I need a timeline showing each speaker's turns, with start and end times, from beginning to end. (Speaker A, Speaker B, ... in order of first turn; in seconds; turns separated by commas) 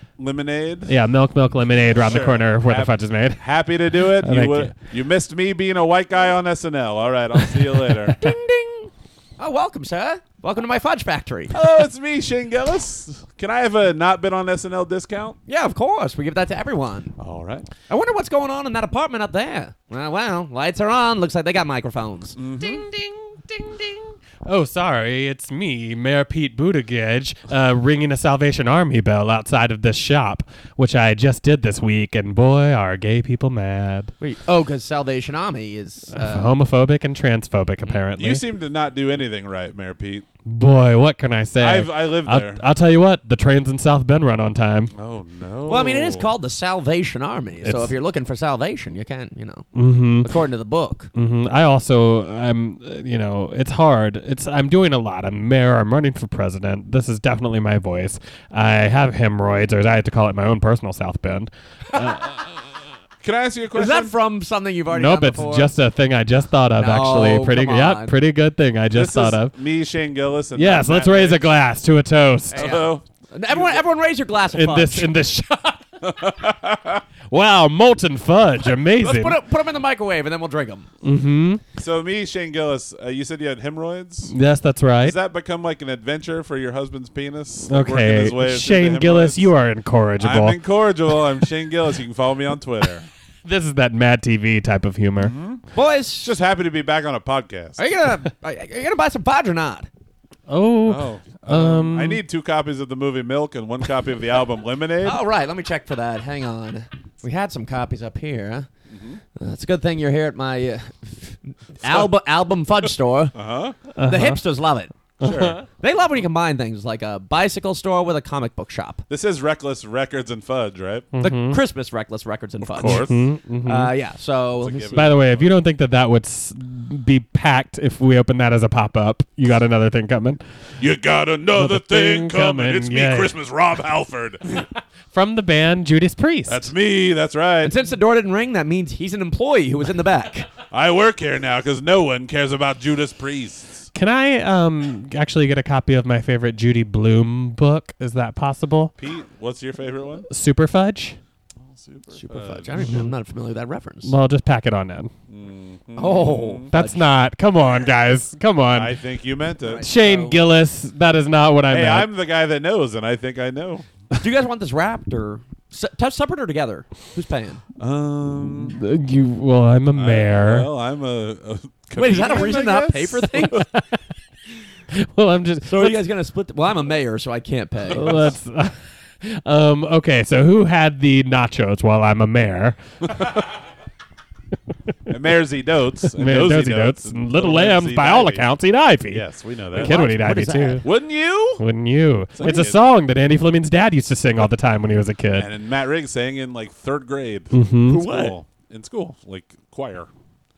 Speaker A: 0.2-0.9, Speaker B: 0.9-3.4, Speaker A: 2.0-8.3, Speaker B: 4.0-4.7, Speaker C: 8.2-11.6, Speaker A: 11.5-15.4, Speaker C: 15.5-17.1, Speaker A: 17.2-17.7, Speaker C: 17.9-22.4, Speaker A: 22.4-22.9, Speaker B: 24.4-34.1, Speaker C: 34.2-36.5, Speaker B: 36.1-38.4, Speaker A: 38.1-40.2, Speaker B: 40.5-44.9, Speaker A: 41.6-42.6, Speaker A: 44.9-46.3, Speaker C: 45.7-49.7, Speaker B: 47.6-47.9, Speaker B: 49.7-50.3, Speaker C: 50.2-51.1, Speaker B: 51.1-62.5, Speaker A: 63.2-64.1, Speaker C: 63.7-65.7, Speaker B: 64.9-69.5, Speaker C: 66.8-68.1, Speaker A: 68.9-71.5, Speaker B: 70.5-72.8, Speaker C: 72.5-75.1, Speaker A: 72.5-73.8, Speaker B: 74.5-75.8, Speaker A: 76.0-77.0, Speaker B: 77.3-79.4, Speaker C: 78.9-80.9, Speaker B: 81.0-81.6, Speaker A: 81.8-84.3, Speaker B: 84.3-85.2, Speaker A: 85.0-89.5, Speaker B: 87.7-90.6, Speaker A: 90.2-93.1, Speaker B: 93.4-95.3, Speaker A: 95.2-95.6, Speaker C: 95.7-96.3, Speaker A: 96.2-97.9, Speaker C: 97.8-99.9, Speaker B: 100.5-102.2, Speaker A: 100.8-105.2, Speaker C: 105.0-108.7, Speaker A: 108.9-109.2, Speaker C: 109.3-113.3, Speaker A: 111.8-112.1, Speaker A: 113.3-113.8, Speaker B: 114.0-114.4, Speaker C: 114.0-115.0, Speaker B: 115.2-115.6, Speaker A: 115.2-115.6, Speaker C: 115.6-119.0, Speaker A: 119.1-121.1, Speaker B: 121.1-121.6, Speaker C: 121.2-125.1, Speaker A: 122.6-123.2, Speaker B: 122.8-123.9, Speaker A: 124.6-125.5, Speaker B: 124.9-130.4, Speaker A: 130.8-134.6, Speaker B: 131.5-133.3, Speaker B: 135.1-136.7, Speaker A: 136.5-137.7, Speaker C: 137.6-140.5, Speaker A: 140.7-143.9, Speaker B: 143.9-148.9, Speaker A: 149.0-150.3, Speaker B: 150.3-151.2, Speaker A: 151.6-152.9, Speaker C: 152.1-154.1, Speaker B: 154.0-155.1, Speaker A: 155.3-156.7, Speaker C: 155.9-157.0, Speaker B: 156.7-159.0, Speaker A: 158.7-159.9, Speaker C: 159.6-160.4, Speaker B: 159.8-162.1, Speaker A: 161.7-163.9, Speaker C: 164.1-167.6, Speaker A: 167.8-168.8, Speaker B: 168.4-170.7, Speaker A: 169.9-173.5, Speaker C: 171.9-173.7, Speaker B: 173.5-173.8, Speaker B: 174.9-176.0, Speaker C: 175.6-178.3, Speaker B: 177.9-182.8, Speaker A: 178.0-178.3, Speaker A: 185.1-188.4, Speaker B: 186.1-190.8, Speaker A: 189.1-190.0, Speaker C: 189.7-190.8, Speaker A: 190.8-191.6, Speaker B: 191.6-195.5, Speaker A: 192.3-192.8, Speaker A: 195.3-200.1, Speaker B: 197.5-198.1, Speaker C: 197.9-198.3